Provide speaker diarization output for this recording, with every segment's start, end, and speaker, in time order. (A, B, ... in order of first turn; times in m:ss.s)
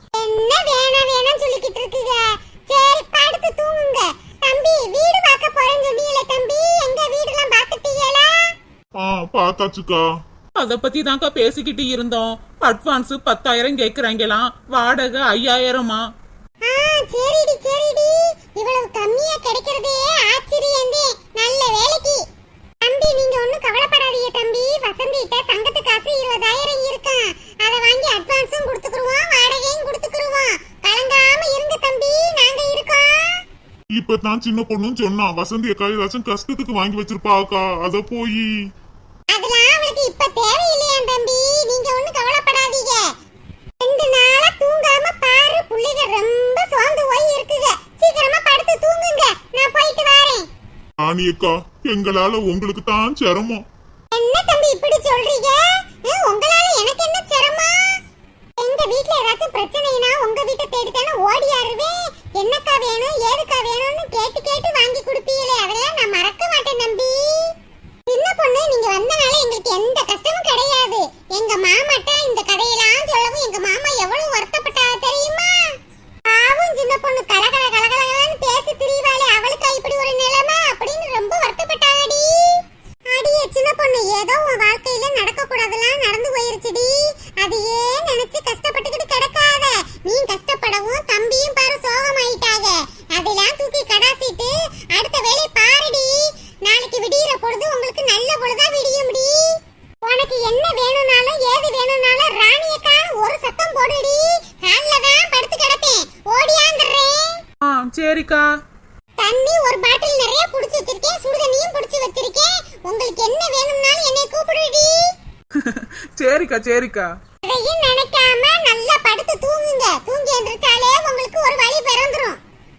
0:00.2-0:08.5 A
0:09.0-0:10.1 B
0:10.6-0:12.3 C
0:10.7-0:16.0 D
0:12.8-0:16.0 C
0:16.6-0:22.2 A
0:22.8-0:33.4 A
0:34.0-0:38.5 B
0:39.3-0:43.1 A
0:43.8-0:50.5 A
0:51.0-0:53.6 B
0:54.1-0:58.0 A
0:58.6-1:07.5 A
1:08.1-1:15.6 A
1:16.3-1:47.4 A
1:47.7-1:48.5 D
1:49.2-1:55.0 A
1:55.6-1:57.1 D
1:57.4-2:02.4 A